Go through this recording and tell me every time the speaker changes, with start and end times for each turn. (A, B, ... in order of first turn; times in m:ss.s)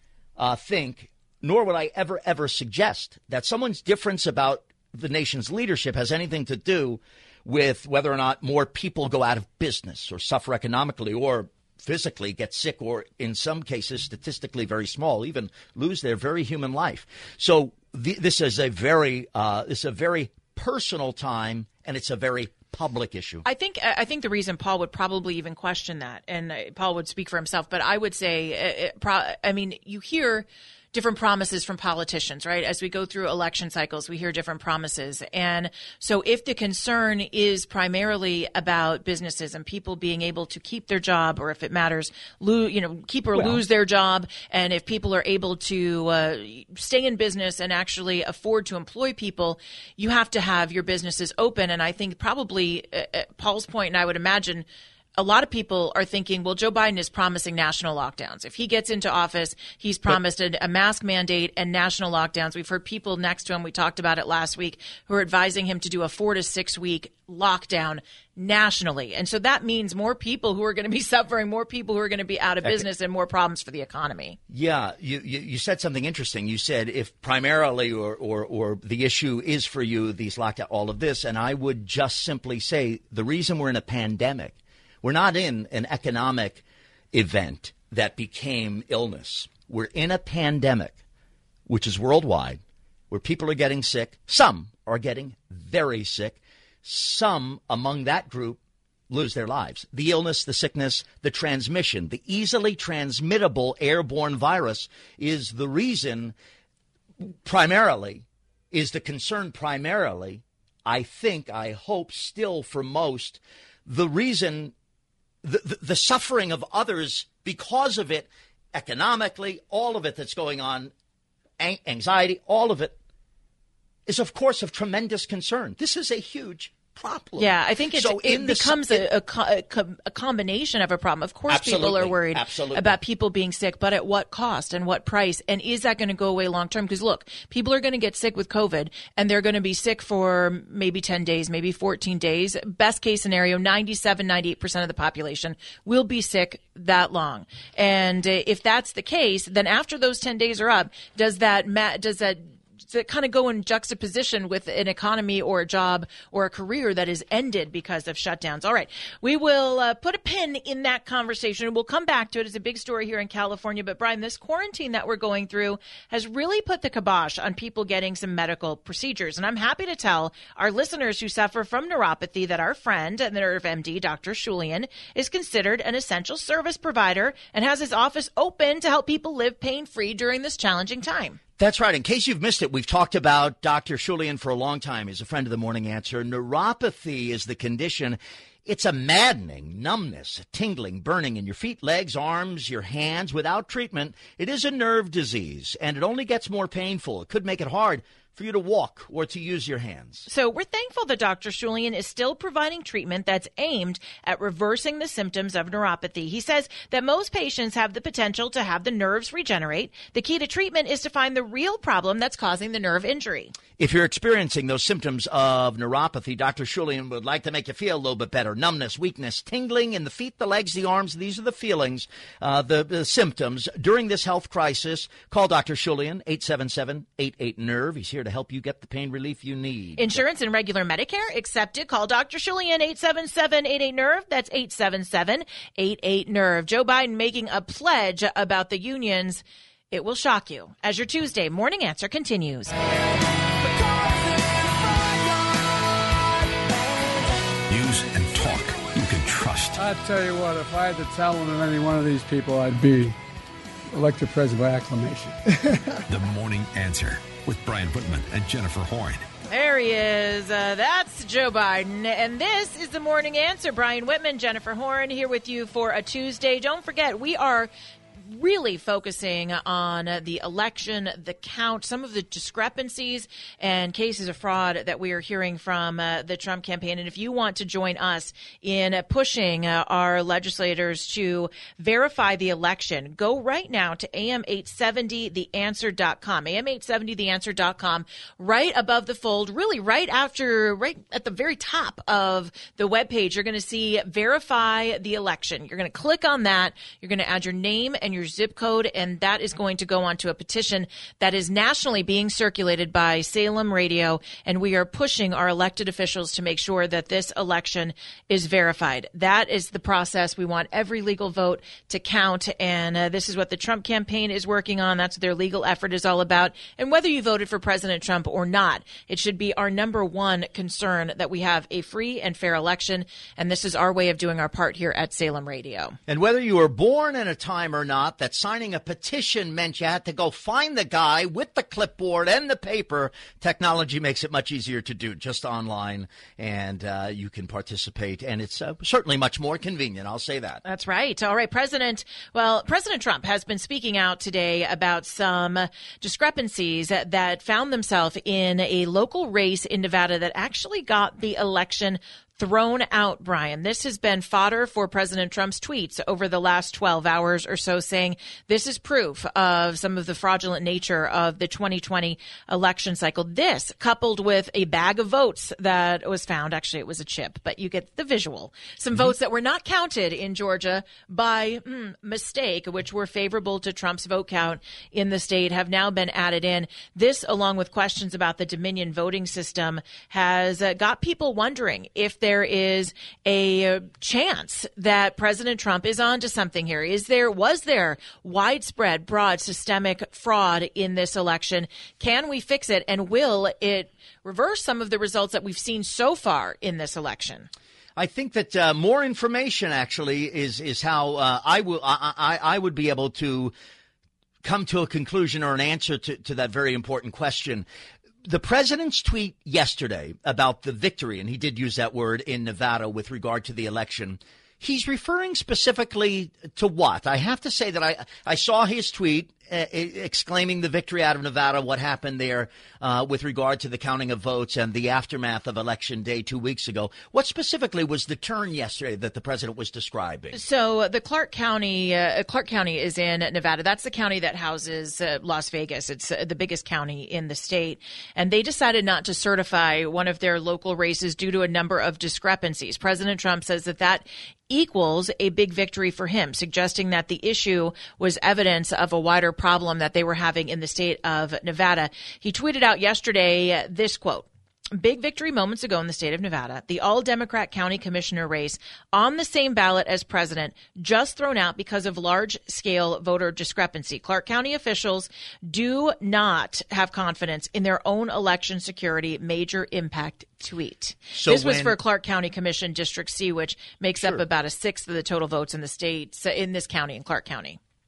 0:00.4-0:23.4 A
0:23.4-1:14.4 B
0:43.4-0:43.6 A
1:14.5-1:31.0 A
1:31.7-1:46.4 A
1:47.2-1:54.7 A
1:55.4-2:00.9 A
2:01.6-2:03.0 A
2:04.1-2:09.1 A
2:07.4-3:01.4 B
2:11.5-2:13.0 A
3:01.6-3:20.3 A
3:20.3-3:33.6 B
3:33.8-3:50.2 A
3:50.0-4:02.8 B
4:07.7-4:09.8 C
4:09.8-4:13.2 D
4:13.9-4:16.0 D
4:16.1-4:19.2 C
4:19.5-4:27.7 B
4:28.3-5:26.0 B
5:26.1-5:40.6 A
5:40.6-6:37.5 B
6:38.0-6:43.5 A
6:44.4-6:47.7 A
6:48.2-7:10.4 A
7:10.3-7:57.6 B
7:51.1-7:51.8 A